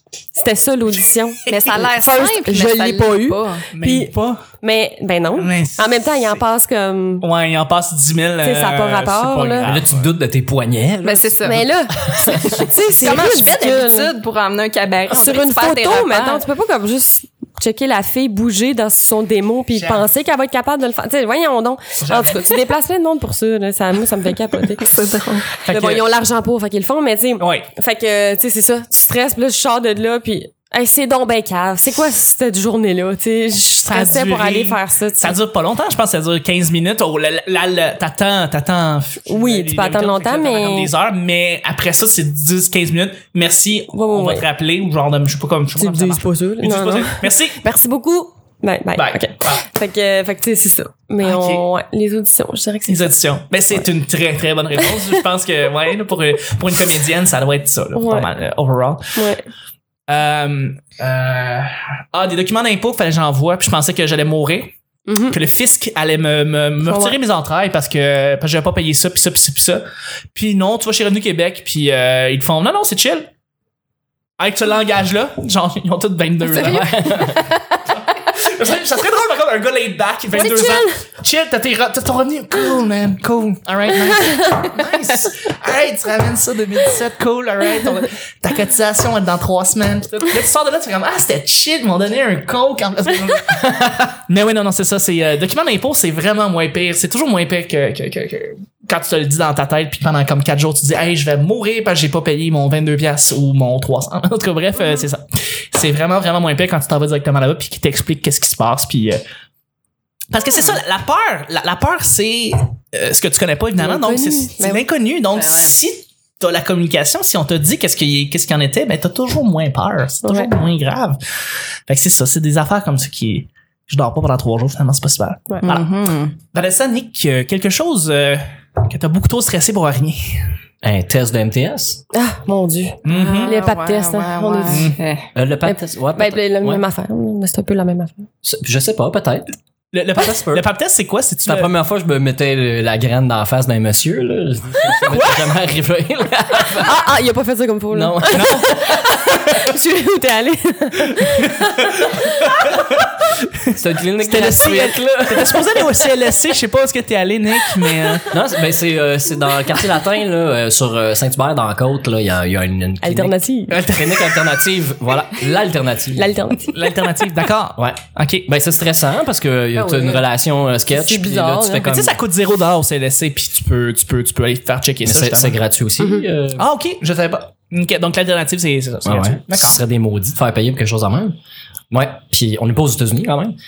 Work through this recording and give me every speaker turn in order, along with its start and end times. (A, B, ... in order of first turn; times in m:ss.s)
0:00.3-0:07.2 A
0:01.5-0:03.7 B
0:03.7-0:04.4 C
0:05.4-0:06.4 C
0:07.2-0:10.1 C
0:08.4-0:09.7 A
0:09.6-0:13.2 D
0:11.0-0:11.6 B
0:11.4-0:14.1 A
0:13.0-0:16.5 B
0:15.1-0:24.9 A
0:19.7-0:20.0 C
0:22.0-0:22.7 C
0:24.8-0:25.6 B
0:25.6-0:35.4 A
0:25.6-0:26.0 C
0:27.4-0:27.7 C
0:33.9-0:47.6 C
0:39.3-0:40.9 A
0:43.9-0:44.4 A
0:45.8-0:53.1 A
0:49.0-0:49.6 C
0:51.2-0:51.6 C
0:52.9-0:59.0 C
0:58.0-0:58.3 A
0:59.2-0:59.4 A
1:00.1-1:04.7 C
1:05.1-1:05.4 A
1:05.3-1:09.8 C
1:06.9-1:07.2 A
1:10.3-1:13.3 C
1:14.4-1:17.2 C
1:16.4-1:17.8 B
1:16.6-1:17.4 D
1:18.2-1:49.2 C
1:20.3-1:21.0 A
1:24.1-1:24.6 A
1:50.3-2:01.2 C
1:53.8-1:54.8 A
1:55.4-1:55.7 B
2:00.2-2:00.5 A
2:01.9-2:05.9 C
2:05.6-2:06.4 B
2:06.5-2:10.5 C
2:10.8-2:12.0 D
2:12.1-2:14.9 A
2:13.0-2:13.6 C
2:13.1-2:15.3 B
2:14.7-2:15.0 C
2:15.4-2:16.8 D
2:15.6-2:18.3 A
2:18.4-2:19.5 D
2:19.9-2:21.7 C
2:20.2-2:20.6 D
2:21.4-2:27.0 D
2:26.8-2:32.6 A
2:27.9-2:29.0 D
2:28.3-2:29.4 C
2:31.2-2:33.1 C
2:33.7-2:38.3 C
2:33.8-2:35.8 D
2:38.3-2:46.4 D
2:43.0-2:43.8 A
2:43.7-2:44.5 C
2:46.2-2:46.7 A
2:46.6-2:48.5 C
2:47.8-2:52.2 D
2:49.8-2:50.2 A
2:50.9-2:51.9 A
2:51.8-2:55.6 C
2:55.0-2:56.7 D
2:56.0-2:56.3 A
2:56.6-2:59.8 C
2:59.0-3:01.4 D
3:01.9-3:03.6 D